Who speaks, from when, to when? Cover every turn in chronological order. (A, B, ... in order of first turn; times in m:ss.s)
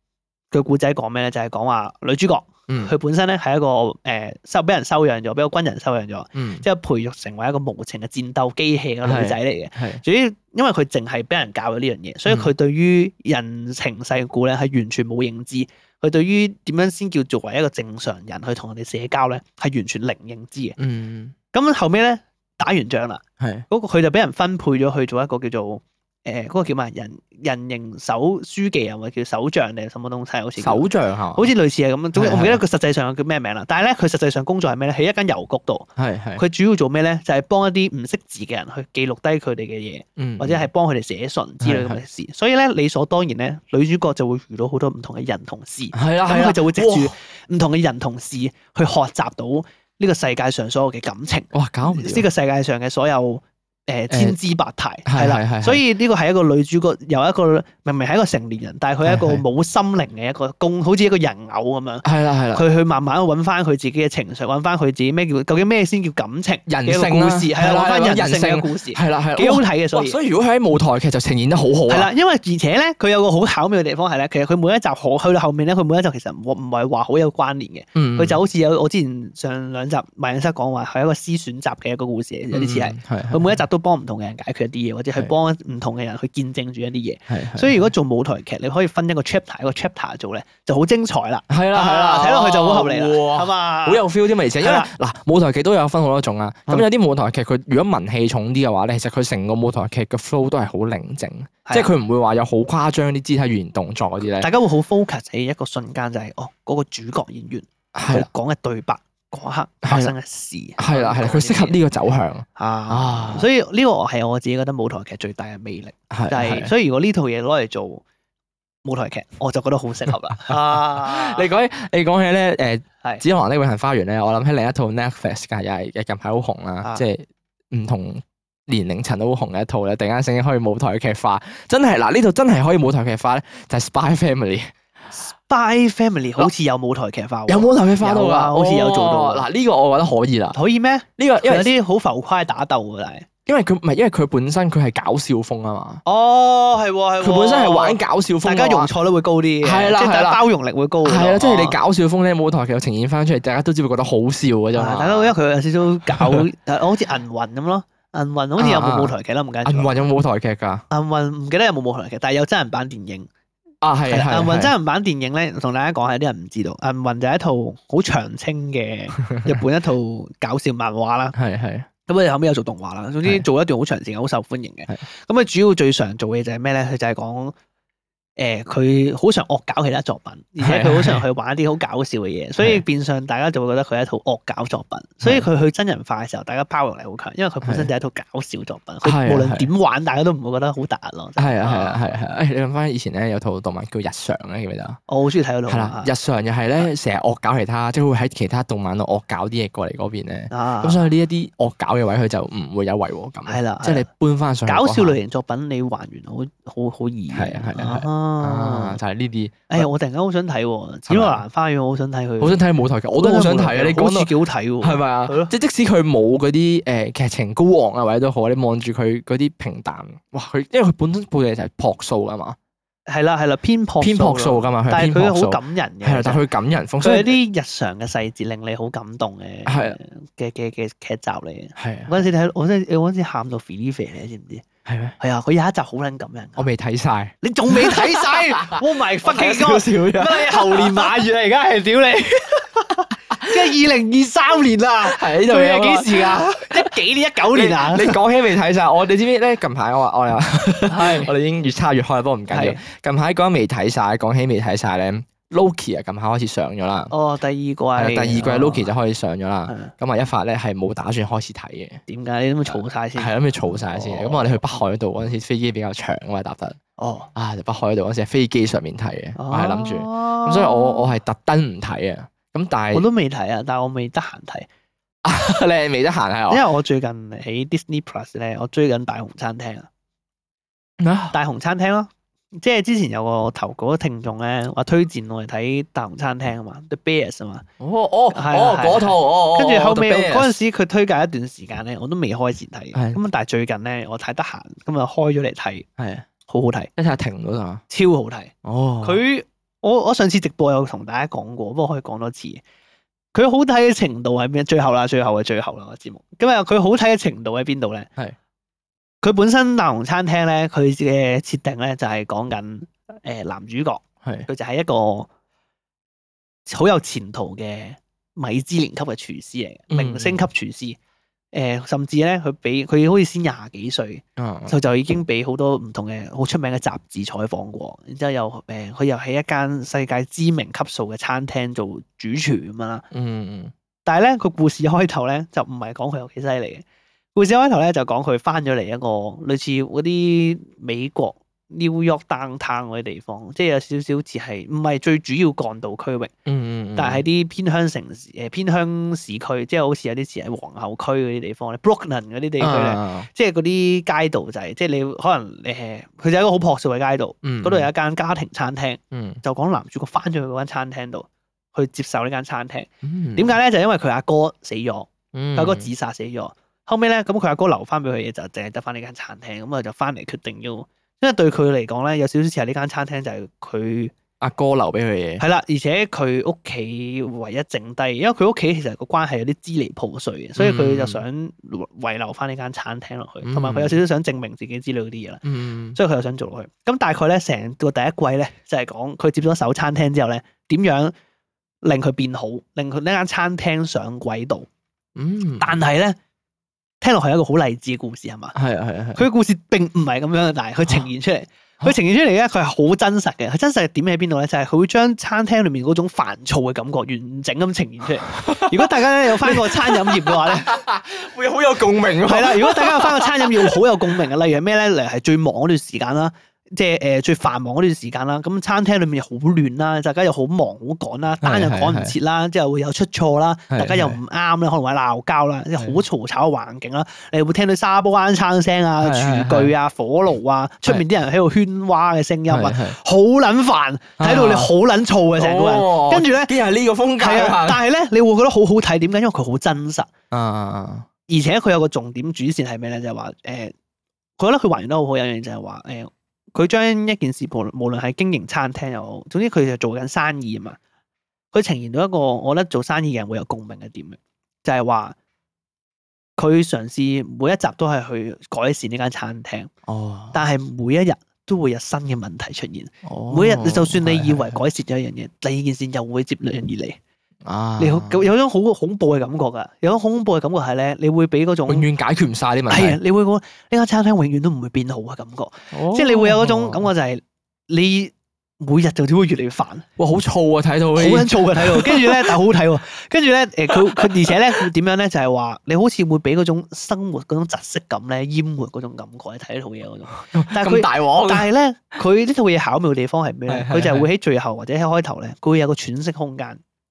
0:00.5-0:20.8 A
0:06.4-0:06.6 B
0:09.0-0:10.0 B
0:20.8-0:21.4 B
0:21.5-1:10.2 A
0:23.4-0:23.6 B
0:30.6-0:31.5 B
0:32.2-0:32.6 B
0:36.0-0:36.4 B
0:40.2-0:40.7 B
0:41.6-0:42.0 B
0:45.9-0:47.1 B
0:51.5-0:52.3 B
0:54.1-0:54.4 B
0:55.1-0:55.8 B
0:59.0-0:59.4 B
1:02.0-1:02.6 B
1:06.7-1:12.1 B
1:11.9-1:34.1 A
1:18.0-1:18.4 B
1:22.5-1:23.6 B
1:27.3-1:27.9 B
1:31.5-1:44.5 B
1:34.6-1:34.9 A
1:41.7-1:41.9 A
1:44.4-1:51.8 A
1:48.0-1:48.3 B
1:49.8-1:50.1 B
1:50.8-1:53.5 B
1:52.6-1:58.0 A
1:56.1-1:56.7 B
1:58.8-2:01.4 A
2:00.5-2:14.7 B
2:15.1-2:19.5 A
2:17.5-2:20.6 B
2:20.5-2:23.3 A
2:21.2-2:21.7 B
2:23.4-2:26.0 B
2:26.0-2:31.8 A
2:27.2-2:28.9 B
2:29.6-2:30.4 B
2:31.0-2:35.4 B
2:34.7-2:40.1 A
2:36.1-2:36.4 B
2:38.6-2:40.8 B
2:40.9-2:43.3 A
2:43.8-2:44.7 B
2:44.1-2:51.3 A
2:49.3-2:49.6 B
2:51.4-2:51.9 B
2:52.1-2:57.6 A
2:58.4-3:12.0 A
3:00.6-3:01.2 B
3:02.6-3:02.8 B
3:07.6-3:07.9 B
3:09.0-3:09.7 B
3:11.4-3:15.0 B
3:15.1-3:16.1 A
3:15.7-3:25.2 B
3:20.5-3:21.0 A
3:23.5-3:24.1 A
3:24.7-3:29.0 A
3:27.3-3:29.9 B
3:29.7-3:32.6 A
3:31.1-3:31.4 B
3:32.4-3:42.6 B
3:33.1-3:35.5 A
3:43.1-3:46.4 A
3:44.0-3:47.4 B
3:47.0-3:54.7 A
3:49.7-3:50.0 B
3:51.8-3:52.2 B
3:54.9-3:55.2 B
3:55.2-3:56.7 A
3:56.6-4:01.2 B
3:57.4-4:08.2 A
4:03.3-4:03.6 B
4:05.0-4:06.9 B
4:07.5-4:17.1 B
4:10.9-4:11.3 A
4:12.5-4:12.8 A
4:17.1-4:18.9 A
4:18.0-4:22.0 B
4:22.1-4:24.7 A
4:22.7-4:26.8 B
4:27.0-4:27.3 A
4:27.4-4:33.0 B
4:29.4-4:31.1 A
4:32.9-4:34.7 A
4:35.2-4:36.6 B
4:36.5-4:39.9 A
4:41.0-4:41.4 B
4:41.3-4:47.7 A
4:47.8-4:50.6 B
4:48.3-4:55.9 A
4:56.0-4:56.3 B
4:56.5-4:56.9 A
4:57.0-4:57.8 B
4:57.9-5:02.6 A
4:58.6-4:59.2 B
5:03.3-5:08.1 A
5:09.2-5:15.3 A
5:16.7-5:21.0 A
5:19.9-5:20.4 B
5:21.5-5:33.1 A
5:24.4-5:24.7 B
5:33.1-5:33.7 B
5:34.0-5:36.8 A
5:37.4-5:46.3 A
5:46.4-5:47.2 B
5:47.0-6:14.1 A
5:52.6-5:53.3 B
5:57.4-5:57.9 B
5:59.1-5:59.4 B
6:03.0-6:03.5 B
6:05.3-6:05.9 B
6:14.4-6:15.4 B
6:15.4-6:25.4 A
6:20.6-6:21.2 B
6:23.4-6:24.0 B
6:25.4-6:26.0 B
6:26.0-6:31.1 A
6:31.8-6:34.7 A
6:35.2-6:35.8 B
6:35.6-6:36.2 A
6:37.0-6:38.6 A
6:38.6-6:39.2 B
6:39.1-6:50.8 A
6:48.3-6:53.8 B
6:52.2-7:16.5 A
7:01.4-7:02.1 B
7:03.7-7:04.2 B
7:09.0-7:09.7 B
7:12.5-7:13.0 B
7:14.2-7:14.7 B
7:15.4-7:17.8 B
7:17.2-7:20.1 A
7:20.3-7:21.1 B
7:21.3-7:23.7 A
7:24.4-7:30.8 A
7:31.5-7:35.1 A
7:36.4-7:39.7 A
7:39.9-7:40.4 B
7:40.3-7:47.0 A
7:43.0-7:44.6 B
7:47.4-7:48.3 B
7:47.8-7:51.9 A
7:51.7-7:53.0 B
7:52.7-7:59.9 A
7:55.7-7:56.9 B
8:00.0-8:02.3 B
8:01.0-8:16.6 A
8:03.7-8:04.4 B
8:10.1-8:11.5 B
8:13.5-8:14.1 B